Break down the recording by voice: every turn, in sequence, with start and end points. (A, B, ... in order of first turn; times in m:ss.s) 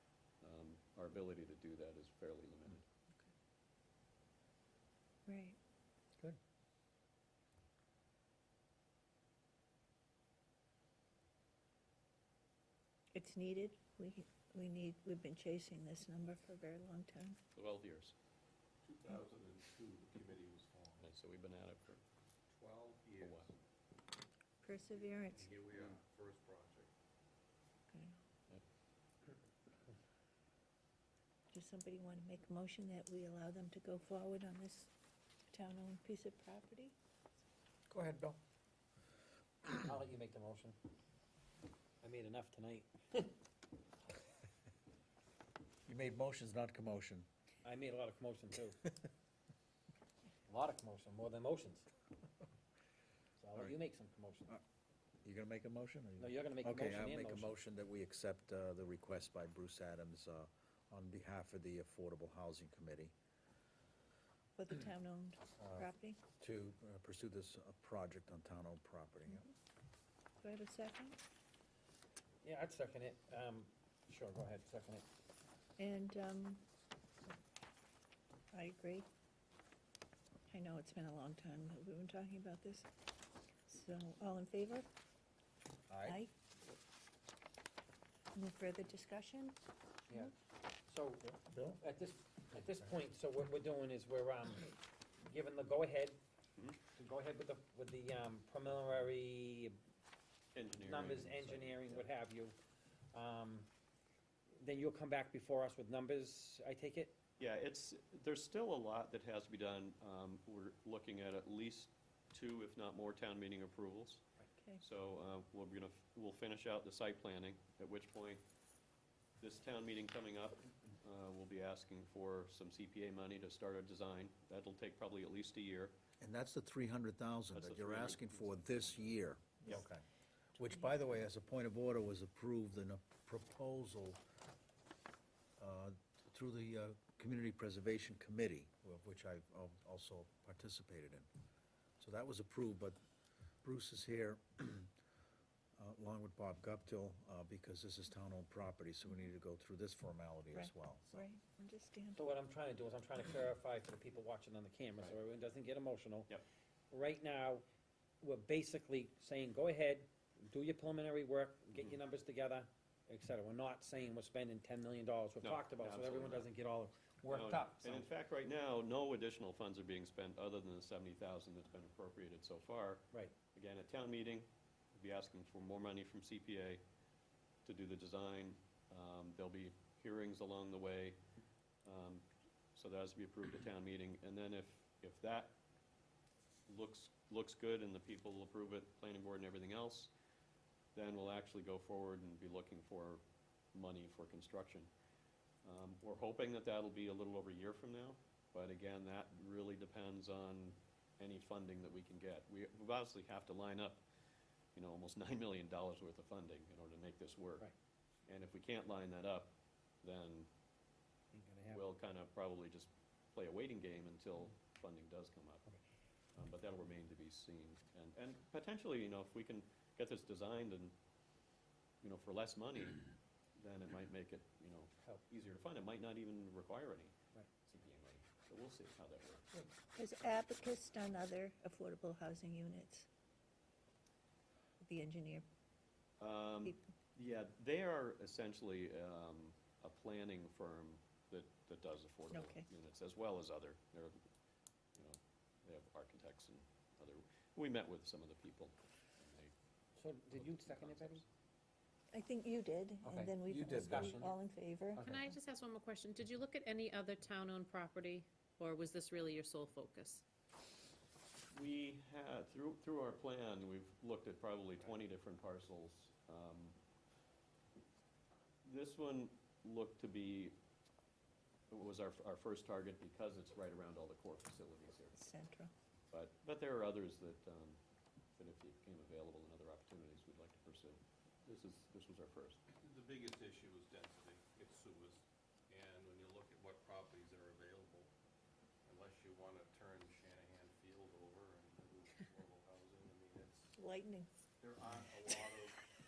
0:00.4-0:02.9 A
0:05.3-0:05.6 B
0:13.1-0:17.4 B
0:17.6-0:18.2 A
0:18.8-0:21.0 C
0:21.0-0:22.0 A
0:22.5-0:23.5 C
0:23.2-0:23.5 A
0:24.6-0:25.5 B
0:25.0-0:26.9 C
0:27.9-0:28.2 B
0:31.5-0:34.9 B
0:35.5-0:37.0 B
0:37.9-0:38.4 D
0:39.7-0:40.8 E
0:42.0-0:43.4 E
0:45.9-0:47.3 D
0:47.6-0:48.8 E
0:50.5-0:51.9 E
0:53.4-0:54.6 E
0:55.2-1:03.1 D
0:56.2-0:57.5 E
1:04.6-1:06.2 B
1:05.6-1:09.5 D
1:10.4-1:11.2 B
1:12.4-1:15.0 E
1:15.8-1:16.6 B
1:18.5-1:19.1 B
1:20.5-1:22.9 B
1:23.7-1:24.9 B
1:25.9-1:26.2 D
1:26.0-1:26.3 B
1:28.3-1:29.6 B
1:30.9-1:36.2 E
1:31.3-1:31.8 D
1:36.9-1:39.8 E
1:40.6-1:42.1 A
1:40.8-1:42.6 E
1:43.1-1:43.7 E
1:44.6-1:47.2 E
1:47.4-1:54.2 A
1:54.8-1:58.4 A
1:59.4-2:06.0 A
2:06.2-2:14.2 D
2:07.5-2:09.1 A
2:15.6-2:21.3 D
2:22.0-2:23.0 D
2:23.6-2:24.9 D
2:25.8-2:31.2 D
2:30.5-2:32.2 B
2:32.2-2:36.3 E
2:36.9-2:37.6 E
2:38.2-2:48.1 E
2:45.4-2:46.5 A
2:47.3-2:56.8 A
2:57.6-3:01.2 A
3:01.8-3:05.6 A
3:06.7-3:10.1 A
3:11.0-3:13.2 A
3:13.7-3:14.9 A
3:15.6-3:24.0 A
3:24.8-3:27.7 A
3:28.3-3:30.5 A
3:31.3-3:31.8 E
3:31.7-3:35.7 A
3:36.4-3:40.9 A
3:42.0-3:43.1 A
3:43.6-3:49.5 A
3:50.0-3:53.1 B
3:54.8-3:55.4 B
3:56.2-4:04.3 A
4:02.3-4:02.6 B
4:05.0-4:09.5 A
4:10.0-4:11.2 E
4:10.3-4:11.3 A
4:12.1-4:15.1 B
4:13.0-4:14.3 E
4:15.0-4:20.2 F
4:21.5-4:26.8 A
4:28.6-4:30.6 A
4:31.7-4:35.3 A
4:35.2-4:35.7 B
4:36.1-4:37.8 A
4:38.4-4:42.6 A
4:42.7-4:48.1 C
4:48.8-4:53.7 C
4:53.8-4:54.5 B
4:54.6-4:55.8 C